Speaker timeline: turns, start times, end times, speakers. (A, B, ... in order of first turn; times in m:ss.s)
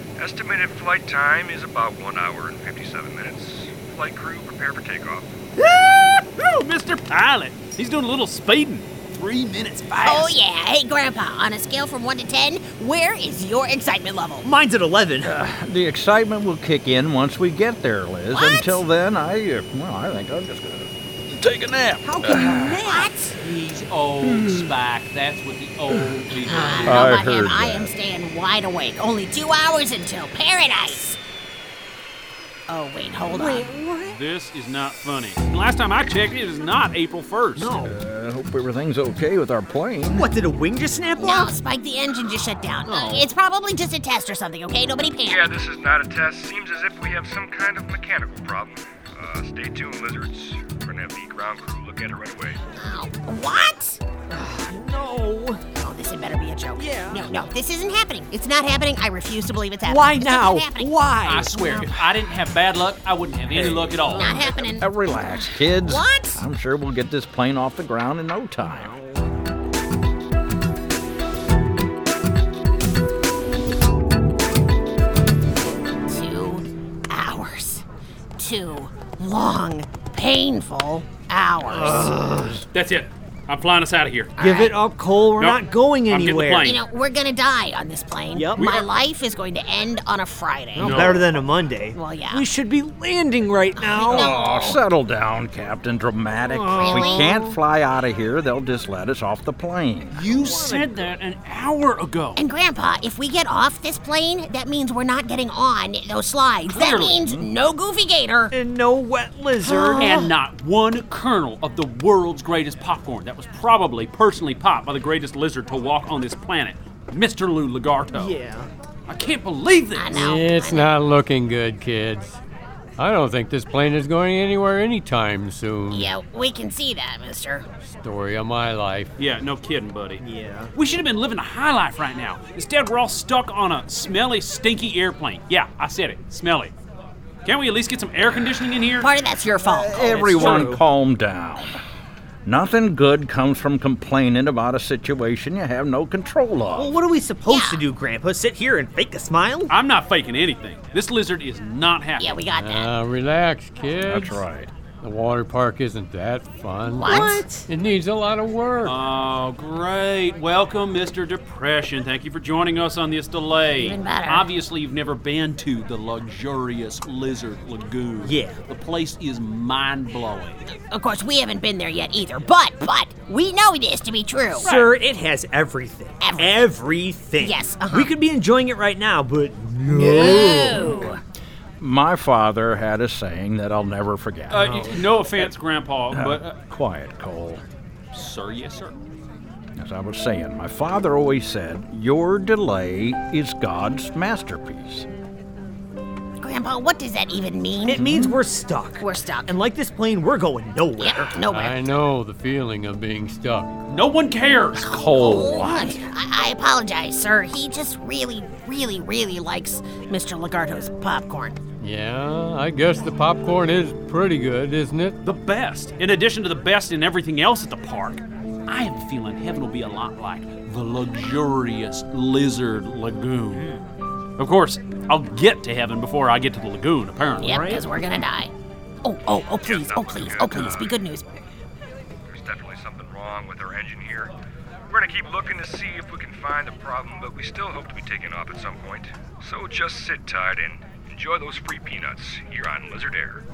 0:00.2-0:05.3 A
0:05.6-0:10.4 B
0:10.0-0:14.5 C
0:14.4-0:15.3 D
0:15.2-0:23.0 E
0:18.3-0:18.8 C
0:22.1-0:23.4 C
0:23.4-0:27.1 B
0:24.2-0:24.7 E
0:26.4-0:31.2 C
0:26.8-0:27.9 E
0:32.7-0:33.9 C
0:33.3-0:34.2 D
0:34.1-0:37.8 B
0:37.6-0:38.0 D
0:37.8-0:40.3 E
0:40.1-0:41.5 D
0:41.2-0:45.6 C
0:42.9-0:43.3 D
0:45.3-0:52.6 A
0:52.8-0:54.0 C
0:54.3-0:55.6 D
0:55.8-1:00.9 C
0:56.8-0:57.4 D
0:59.8-1:02.0 D
1:01.2-1:04.5 B
1:03.5-1:04.7 D
1:04.1-1:06.4 C
1:04.5-1:09.0 E
1:08.7-1:09.2 D
1:16.1-1:17.8 C
1:18.4-1:22.2 C
1:21.6-1:22.6 D
1:22.7-1:24.4 B
1:24.4-1:26.8 D
1:24.4-1:24.8 C
1:25.4-1:26.8 B
1:26.6-1:31.2 C
1:28.3-1:28.8 D
1:28.6-1:28.9 B
1:30.8-1:34.4 D
1:30.8-1:31.3 B
1:31.9-1:32.5 C
1:33.8-1:34.8 C
1:34.1-1:40.2 E
1:36.5-1:37.6 D
1:36.8-1:37.4 C
1:40.1-1:41.1 D
1:40.2-1:42.4 B
1:42.4-1:48.6 C
1:46.7-1:47.2 B
1:47.2-1:47.5 E
1:48.5-1:50.3 D
1:49.6-1:50.3 C
1:50.0-1:58.4 B
1:58.1-1:58.7 D
1:59.1-2:00.3 B
2:00.0-2:00.9 C
2:00.1-2:02.4 F
2:03.0-2:06.1 F
2:05.9-2:07.7 C
2:07.8-2:09.1 F
2:09.2-2:10.2 B
2:10.2-2:10.7 D
2:10.8-2:16.7 B
2:17.4-2:19.1 B
2:19.0-2:20.7 C
2:19.8-2:21.8 E
2:19.9-2:20.8 D
2:22.4-2:27.0 E
2:26.7-2:29.7 D
2:27.5-2:27.8 C
2:29.7-2:32.4 B
2:32.2-2:32.9 C
2:32.5-2:34.4 F
2:34.0-2:34.7 E
2:35.0-2:39.0 F
2:36.9-2:37.6 C
2:37.1-2:37.6 D
2:38.8-2:50.7 B
2:43.8-2:44.5 C
2:48.2-2:48.6 D
2:50.7-2:54.7 C
2:54.6-3:01.2 D
2:54.6-2:55.0 B
2:56.2-2:56.7 C
2:57.4-2:58.1 C
2:59.9-3:01.2 C
3:01.8-3:05.2 E
3:04.5-3:06.5 B
3:04.6-3:05.0 D
3:06.1-3:07.6 E
3:08.1-3:09.0 B
3:09.8-3:15.1 E
3:16.4-3:18.2 C
3:17.9-3:21.4 D
3:17.9-3:18.4 E
3:19.0-3:19.6 C
3:21.0-3:21.8 C
3:21.5-3:23.8 F
3:23.9-3:24.9 B
3:24.8-3:26.0 E
3:24.8-3:31.6 C
3:31.8-3:35.2 F
3:35.2-3:43.8 B
3:44.4-3:47.8 B
3:47.4-3:48.5 C
3:47.4-3:47.8 D
3:49.0-3:51.4 C
3:49.5-3:51.0 A
3:52.3-3:54.3 A
3:54.9-4:03.4 A